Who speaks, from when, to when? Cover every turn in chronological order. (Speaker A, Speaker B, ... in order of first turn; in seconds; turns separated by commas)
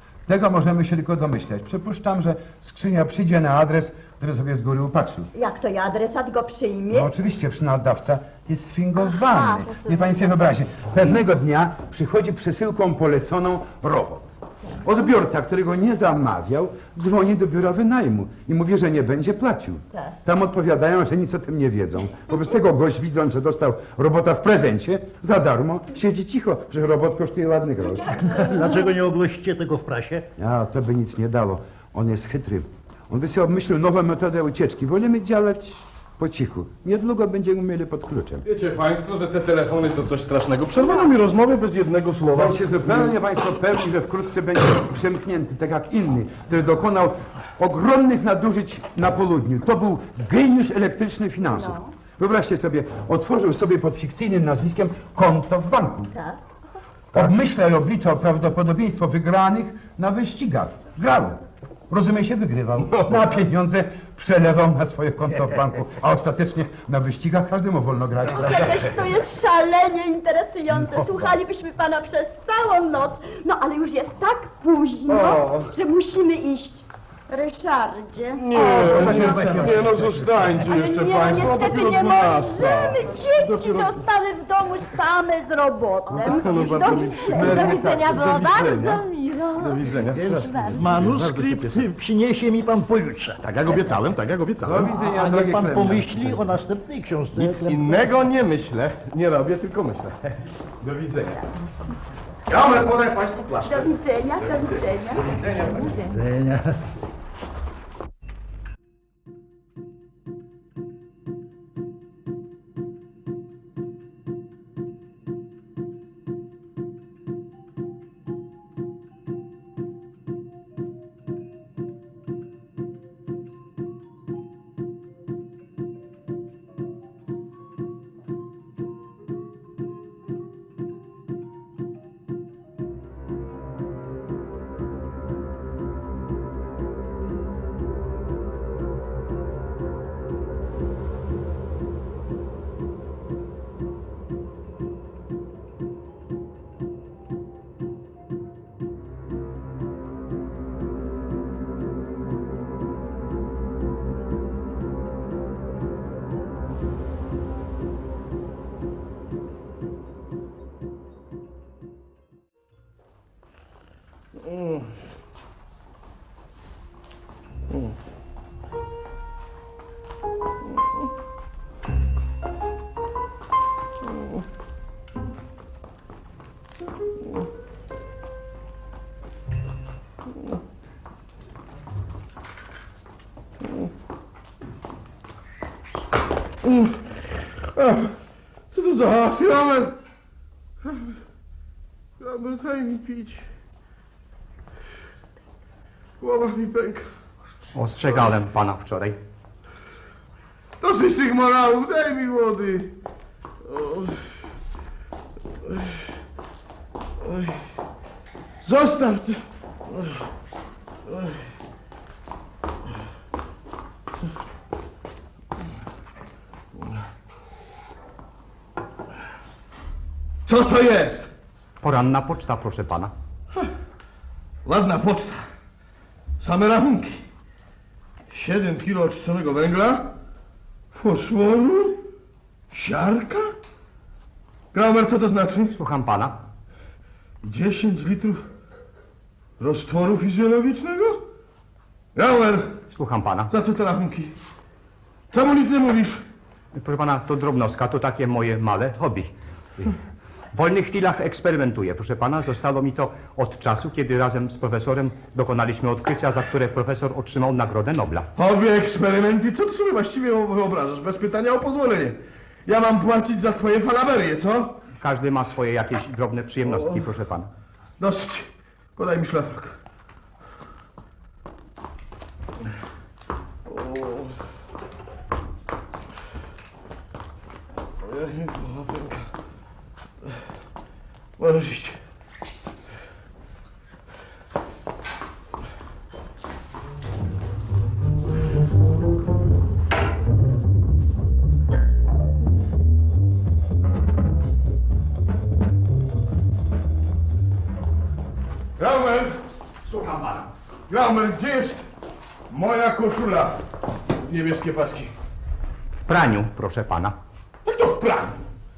Speaker A: 0.3-5.3, Speaker B: 5.3-7.1, Speaker A: 6.9-14.3, Speaker B: 9.0-10.3, Speaker A: 14.8-28.4, Speaker B: 27.8-28.9, Speaker C: 28.1-30.3, Speaker A: 30.4-38.4, Speaker D: 38.4-43.1, Speaker A: 42.3-56.1, Speaker B: 51.5-51.9, Speaker B: 56.1-56.4, Speaker A: 57.1-68.9, Speaker D: 62.8-63.4, Speaker B: 68.3-79.2, Speaker D: 75.1-75.7, Speaker D: 78.4-83.0, Speaker C: 79.0-79.7, Speaker B: 80.6-87.7, Speaker D: 86.1-89.0, Speaker E: 87.2-91.0, Speaker A: 87.4-88.2, Speaker D: 89.6-91.8, Speaker C: 90.0-93.4, Speaker D: 93.4-94.9, Speaker A: 94.6-96.5, Speaker C: 94.8-98.1, Speaker D: 97.3-101.5, Speaker D: 102.5-106.1, Speaker B: 103.6-105.3, Speaker C: 106.1-106.8, Speaker D: 164.3-164.9, Speaker D: 174.1-174.4, Speaker D: 186.6-187.1, Speaker D: 187.6-188.1, Speaker D: 188.7-190.0, Speaker D: 190.8-191.1, Speaker D: 192.2-193.4, Speaker D: 196.2-197.1, Speaker F: 197.7-199.2, Speaker D: 200.8-202.9, Speaker D: 203.6-204.2, Speaker D: 205.6-206.0, Speaker D: 207.2-207.6, Speaker D: 208.6-210.2, Speaker D: 211.1-211.4, Speaker D: 220.4-221.3, Speaker F: 221.8-223.1, Speaker D: 224.6-225.5, Speaker D: 226.4-227.2, Speaker D: 228.3-230.2, Speaker D: 230.9-232.0, Speaker D: 232.7-233.5, Speaker D: 234.7-235.7, Speaker F: 235.7-236.4, Speaker D: 237.4-238.4, Speaker D: 239.6-241.2, Speaker D: 242.1-242.8, Speaker F: 242.9-243.5, Speaker D: 243.5-244.3, Speaker D: 245.3-246.2, Speaker F: 246.7-249.9, Speaker F: 250.5-258.3, Speaker D: 258.4-264.8, Speaker F: 265.0-267.5, Speaker D: 266.6-267.1, Speaker D: 268.0-269.8, Speaker D: 273.7-274.3, Speaker D: 278.0-279.3, Speaker D: 281.4-282.0, Speaker D: 298.8-299.4, Speaker F: 299.8-300.5, Speaker D: 300.9-301.8, Speaker D: 302.5-305.1, Speaker F: 306.0-307.1, Speaker D: 307.6-308.4